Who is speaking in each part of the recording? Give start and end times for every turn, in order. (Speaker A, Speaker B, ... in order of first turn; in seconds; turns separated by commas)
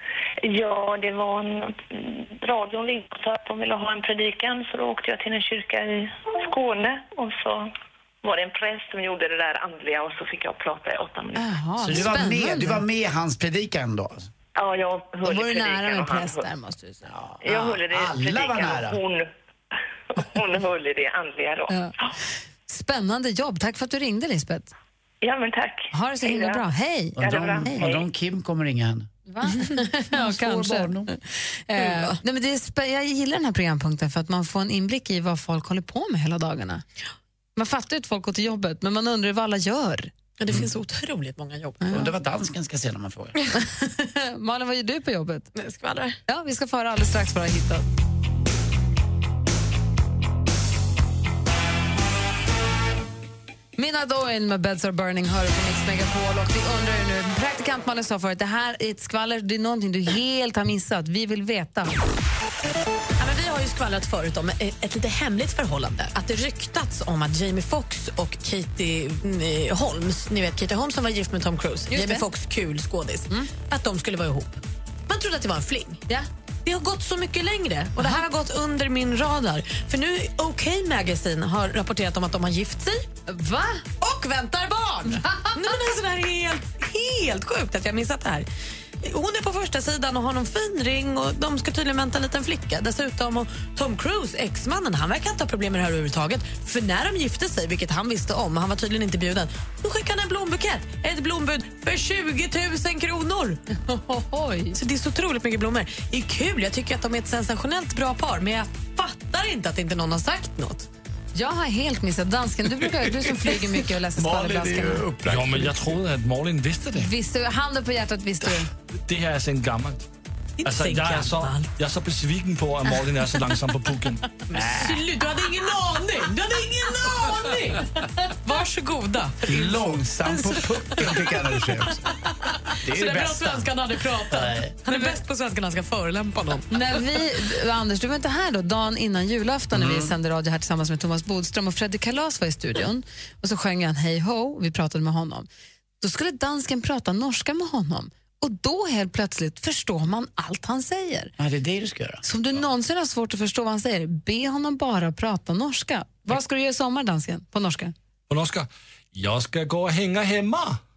Speaker A: 0.4-7.7, Speaker A: 8.2-11.5, Speaker B: 11.4-12.8, Speaker C: 11.8-14.3, Speaker A: 14.6-16.4, Speaker B: 15.2-17.1, Speaker C: 17.1-19.0, Speaker A: 17.4-19.3, Speaker A: 20.1-22.1, Speaker B: 21.7-21.9, Speaker B: 22.7-24.7, Speaker A: 25.2-26.6, Speaker B: 25.9-27.9, Speaker C: 27.2-29.1, Speaker A: 27.2-28.1, Speaker B: 29.3-36.9, Speaker C: 30.1-31.1, Speaker D: 31.8-32.2, Speaker B: 37.6-40.1, Speaker D: 40.4-41.9, Speaker B: 41.8-42.1, Speaker C: 41.9-43.4, Speaker B: 43.6-45.5, Speaker D: 45.6-46.2, Speaker B: 46.3-47.9, Speaker B: 53.8-62.0, Speaker D: 63.2-76.0, Speaker B: 71.9-72.3, Speaker D: 76.7-83.1, Speaker B: 83.3-83.9, Speaker D: 84.0-88.5, Speaker B: 85.2-85.5, Speaker D: 89.0-103.6, Speaker B: 103.9-104.8, Speaker D: 104.8-110.9, Speaker B: 111.3-115.1, Speaker C: 114.2-116.0, Speaker E: 115.2-117.1, Speaker B: 117.0-118.7, Speaker E: 119.1-120.1, Speaker D: 120.6-121.7, Speaker E: 120.6-124.2, Speaker D: 124.5-137.1, Speaker C: 124.5-125.0, Speaker C: 129.4-132.0, Speaker C: 132.8-133.7, Speaker C: 134.3-134.8, Speaker B: 136.7-145.5, Speaker C: 139.7-140.2, Speaker B: 146.0-151.3, Speaker C: 151.4-152.2, Speaker B: 152.2-157.9, Speaker E: 158.3-160.8